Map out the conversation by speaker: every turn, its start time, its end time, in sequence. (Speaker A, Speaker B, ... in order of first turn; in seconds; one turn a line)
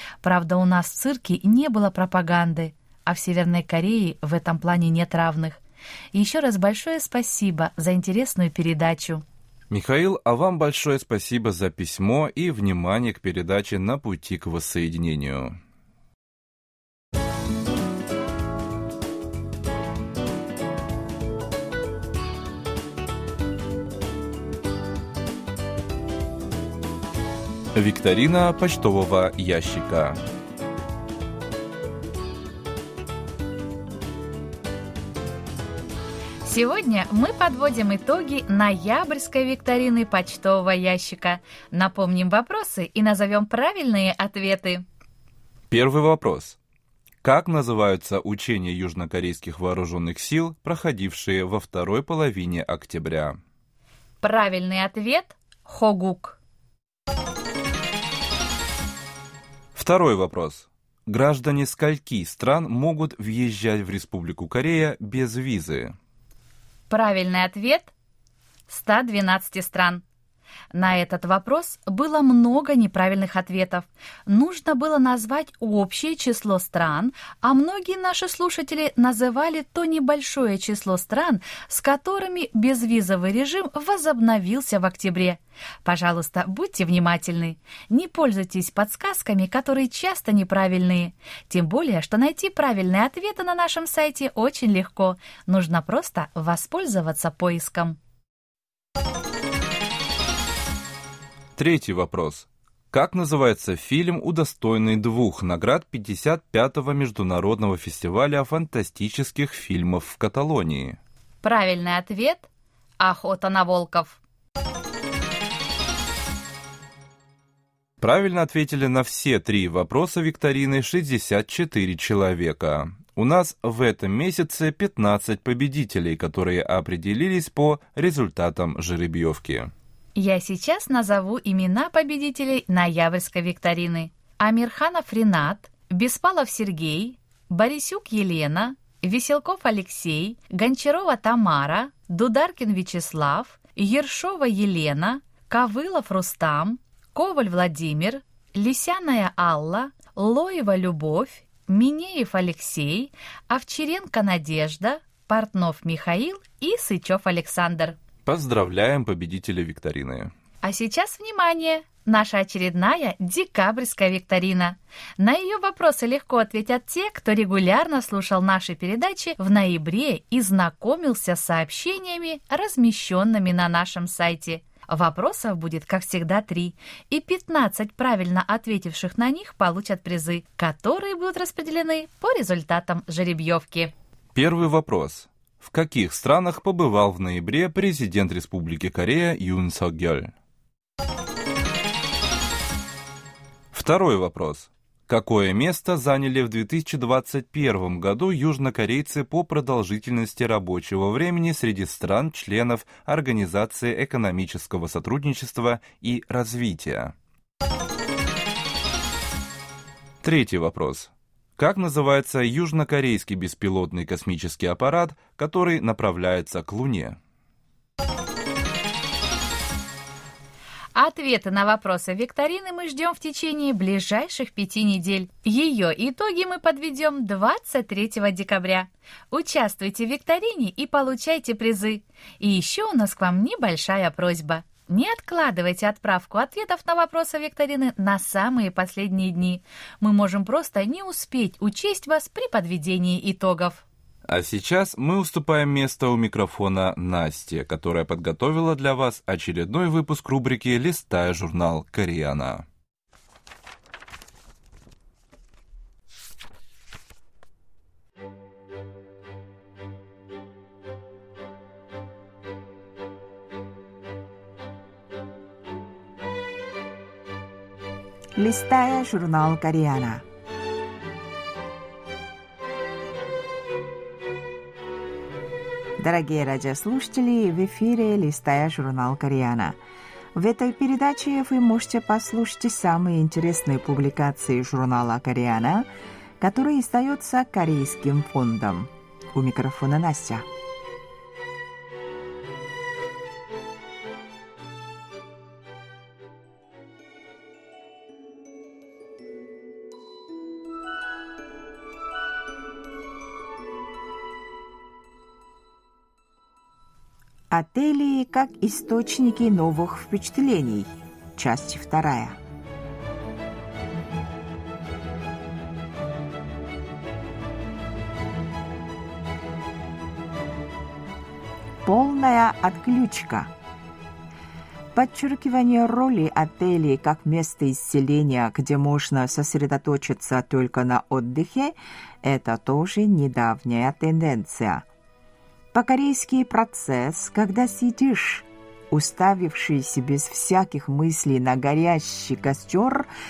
Speaker A: 0.2-5.6
Speaker A: 6.1-9.2
Speaker B: 9.7-15.6
Speaker B: 27.7-30.2
Speaker A: 36.4-44.8
Speaker B: 45.7-46.6
Speaker B: 47.2-53.4
Speaker A: 54.2-56.4
Speaker B: 59.7-65.9
Speaker A: 66.9-67.9
Speaker A: 68.7-70.0
Speaker A: 70.7-98.0
Speaker B: 101.5-111.0
Speaker A: 111.4-112.5
Speaker A: 113.0-114.2
Speaker B: 118.0-129.7
Speaker A: 130.2-158.0
Speaker B: 158.2-160.3
Speaker A: 160.6-183.9
Speaker B: 184.3-190.3
Speaker B: 193.7-207.1
Speaker B: 210.2-217.2
Speaker A: 220.9-243.8
Speaker B: 244.3-252.6
Speaker C: 268.4-270.2
Speaker C: 276.0-279.8
Speaker C: 280.3-285.9
Speaker C: 286.4-290.5
Speaker C: 307.5-312.4
Speaker C: 321.8-323.5
Speaker C: 324.9-334.9
Speaker C: 335.7-343.1